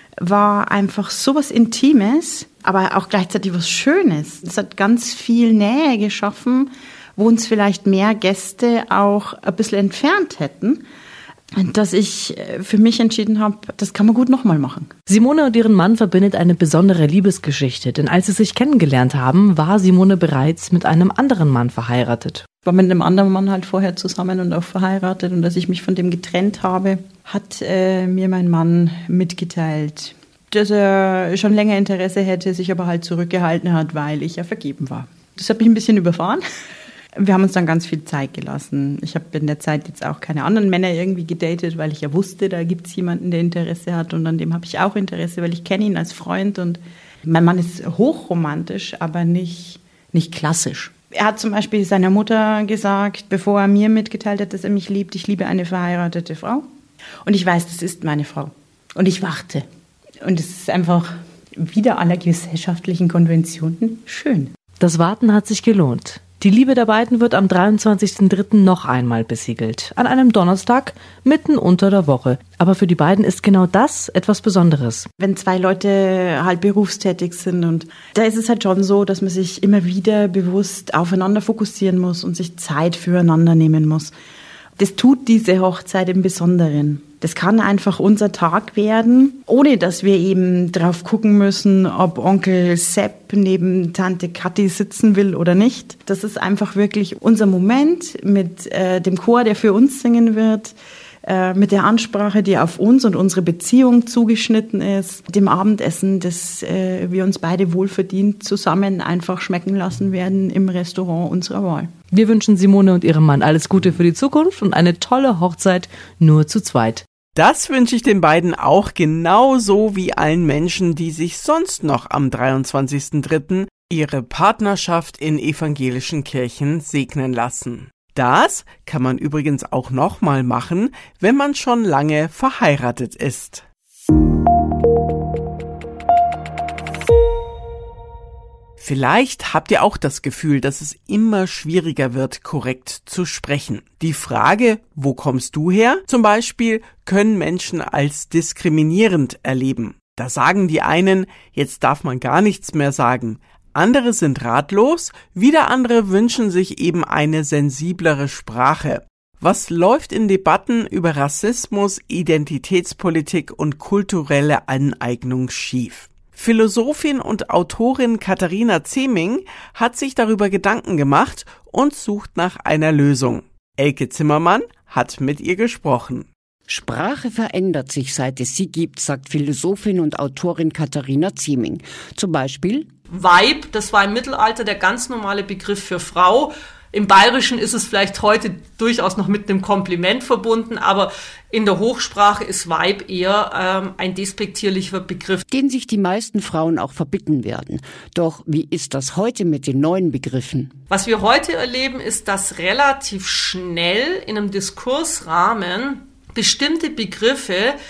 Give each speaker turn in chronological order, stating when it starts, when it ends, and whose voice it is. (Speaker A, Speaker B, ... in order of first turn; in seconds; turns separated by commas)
Speaker A: 0.2-10.8, Speaker A: 11.6-14.9, Speaker B: 15.1-22.4, Speaker A: 22.6-36.4, Speaker A: 37.1-56.6, Speaker A: 57.2-59.6, Speaker A: 60.2-64.5, Speaker B: 64.8-75.1, Speaker A: 75.2-84.1, Speaker A: 84.8-100.7, Speaker A: 101.2-111.9, Speaker B: 112.1-117.0, Speaker C: 117.3-133.6, Speaker C: 138.8-176.3, Speaker D: 176.7-182.9, Speaker E: 183.1-195.4, Speaker D: 195.5-200.7, Speaker E: 200.9-207.8